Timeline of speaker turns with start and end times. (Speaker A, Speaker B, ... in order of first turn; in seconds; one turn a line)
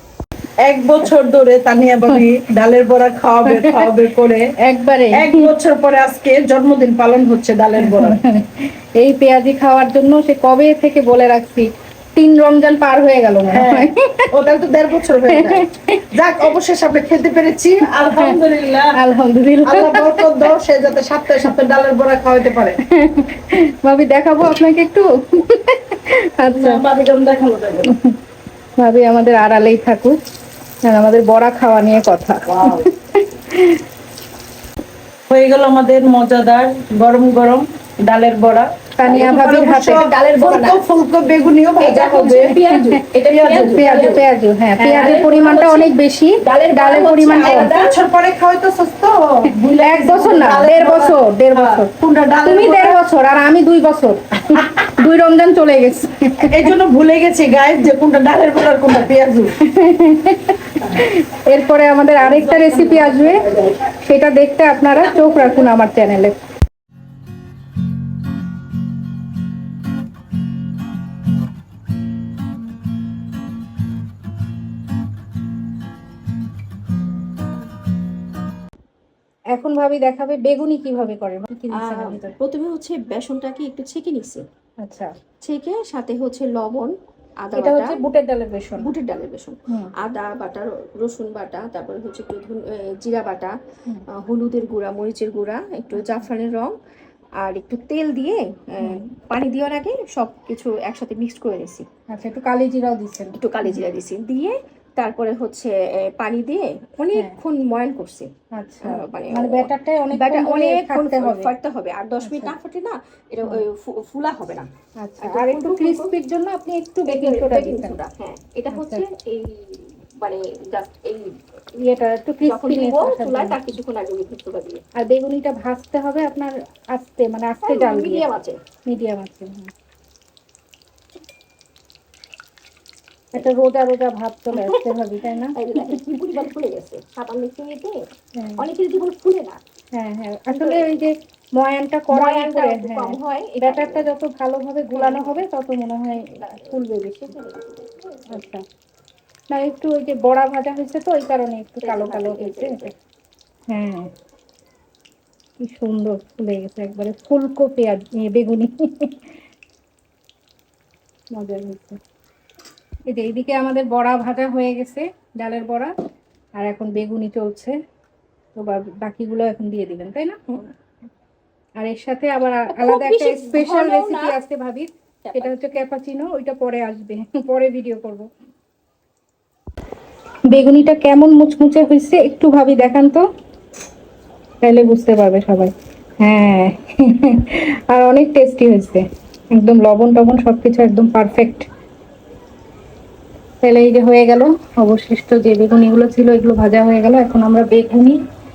Speaker A: 0.6-4.4
Speaker B: 3.5-3.9
Speaker B: 4.6-5.5
Speaker A: 5.1-8.2
Speaker B: 7.8-14.3
Speaker A: 13.5-15.5
Speaker B: 15.3-16.1
Speaker A: 16.1-19.0
Speaker B: 18.1-20.4
Speaker A: 19.6-22.8
Speaker B: 22.8-26.8
Speaker A: 26.5-27.9
Speaker B: 27.9-28.1
Speaker B: 28.8-30.2
Speaker B: 30.9-33.8
Speaker A: 32.5-32.9
Speaker A: 35.3-38.9
Speaker B: 39.0-40.0
Speaker C: 39.0-40.8
Speaker A: 39.4-42.6
Speaker C: 41.8-44.2
Speaker B: 42.7-43.0
Speaker A: 43.2-44.1
Speaker B: 43.7-47.7
Speaker C: 44.8-48.0
Speaker A: 47.4-53.0
Speaker B: 49.8-51.9
Speaker B: 52.4-56.7
Speaker A: 56.4-59.5
Speaker B: 59.6-66.3
Speaker A: 62.2-63.7
Speaker B: 79.5-82.3
Speaker C: 81.8-84.4
Speaker B: 84.8-85.1
Speaker C: 85.4-88.0
Speaker B: 87.5-88.9
Speaker C: 88.8-93.6
Speaker C: 94.2-96.8
Speaker B: 95.9-96.2
Speaker C: 97.4-101.8
Speaker B: 98.8-99.1
Speaker B: 102.1-103.8
Speaker C: 103.4-108.3
Speaker B: 108.5-111.5
Speaker C: 108.8-114.7
Speaker B: 112.2-112.5
Speaker B: 115.0-118.0
Speaker C: 115.2-116.1
Speaker C: 117.0-121.3
Speaker B: 118.7-119.0
Speaker B: 121.8-123.6
Speaker C: 122.4-124.8
Speaker B: 125.0-128.2
Speaker C: 127.6-128.6
Speaker B: 128.9-129.7
Speaker B: 133.3-136.0
Speaker C: 134.5-135.0
Speaker C: 135.5-138.0
Speaker B: 138.4-138.6
Speaker C: 138.6-139.6
Speaker B: 139.9-147.3
Speaker C: 140.5-141.1
Speaker C: 142.1-144.1
Speaker C: 144.9-145.4
Speaker C: 146.2-148.5
Speaker B: 148.3-148.6
Speaker B: 149.5-152.8
Speaker C: 151.8-152.9
Speaker B: 153.7-154.1
Speaker B: 155.6-159.3
Speaker B: 161.3-162.0
Speaker B: 163.1-165.9
Speaker B: 166.6-167.8
Speaker B: 168.6-170.4
Speaker B: 171.8-178.3
Speaker C: 172.7-174.4
Speaker C: 175.2-175.7
Speaker B: 180.5-183.2
Speaker B: 184.6-191.7
Speaker B: 193.6-198.2